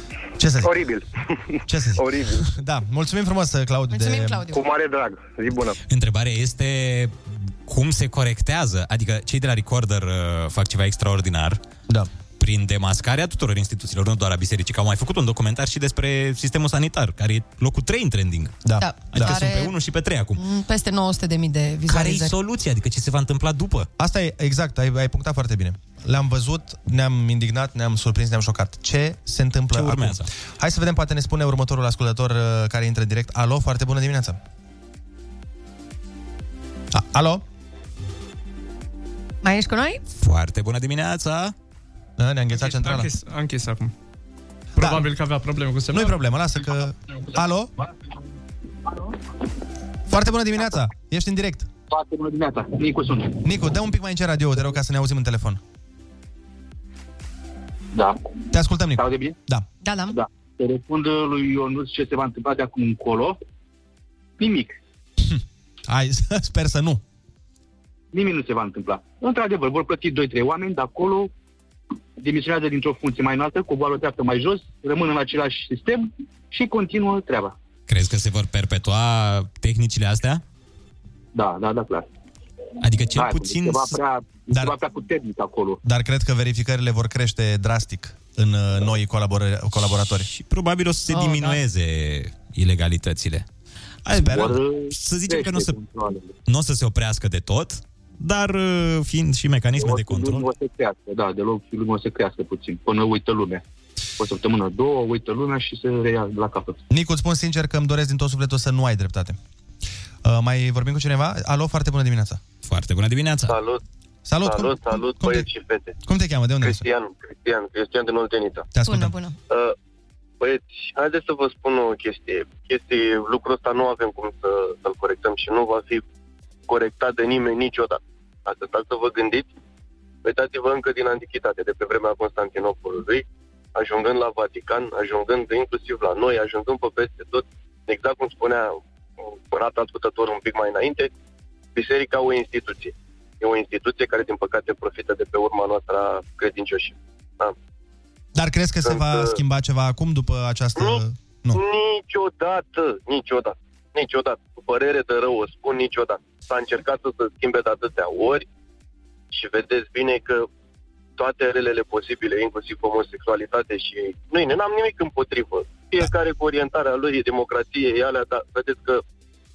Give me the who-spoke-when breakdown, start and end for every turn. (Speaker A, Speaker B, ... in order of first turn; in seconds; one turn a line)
Speaker A: 0.4-0.8
Speaker B: 0.6-2.5
Speaker A: 1.7-4.5
Speaker C: 3.9-4.6
Speaker B: 4.5-5.8
Speaker D: 5.9-11.6
Speaker D: 12.4-18.6
Speaker A: 18.6-19.4
Speaker C: 18.8-19.7
Speaker D: 19.1-20.4
Speaker C: 20.4-22.3
Speaker D: 21.9-23.9
Speaker A: 24.0-34.4
Speaker D: 29.7-30.3
Speaker A: 36.9-37.4
Speaker C: 39.4-40.0
Speaker D: 40.2-41.5
Speaker A: 42.2-43.1
Speaker E: 42.5-43.9
Speaker E: 44.8-46.2
Speaker A: 44.8-45.0
Speaker A: 45.9-47.7
Speaker A: 50.1-51.7
Speaker F: 51.9-53.4
Speaker A: 53.4-55.6
Speaker A: 58.5-59.6
Speaker F: 59.0-59.3
Speaker C: 59.8-60.2
Speaker F: 60.1-63.4
Speaker F: 64.4-64.7
Speaker A: 65.2-67.0
Speaker F: 68.1-71.3
Speaker F: 72.2-77.5
Speaker D: 77.9-80.4
Speaker F: 81.3-82.0
Speaker D: 82.8-84.0
Speaker F: 83.2-85.8
Speaker A: 84.5-84.8
Speaker A: 85.8-90.3
Speaker D: 90.1-93.5
Speaker C: 91.1-91.6
Speaker D: 94.1-95.8
Speaker F: 94.1-96.3
Speaker D: 96.5-100.5
Speaker F: 99.8-103.6
Speaker F: 104.2-106.8
Speaker A: 106.9-109.4
Speaker A: 110.2-112.4
Speaker D: 112.7-113.6
Speaker G: 113.5-113.8
Speaker A: 114.3-115.5
Speaker G: 114.4-116.0
Speaker A: 116.0-116.8
Speaker G: 116.6-118.7
Speaker A: 118.7-119.1
Speaker C: 118.8-119.4
Speaker G: 120.4-126.0
Speaker G: 126.7-129.5
Speaker G: 130.2-133.2
Speaker G: 133.8-138.8
Speaker G: 139.5-141.1
Speaker G: 141.8-147.5
Speaker A: 148.3-151.6
Speaker G: 148.8-149.3
Speaker G: 151.5-158.4
Speaker G: 159.3-160.5
Speaker G: 161.2-169.0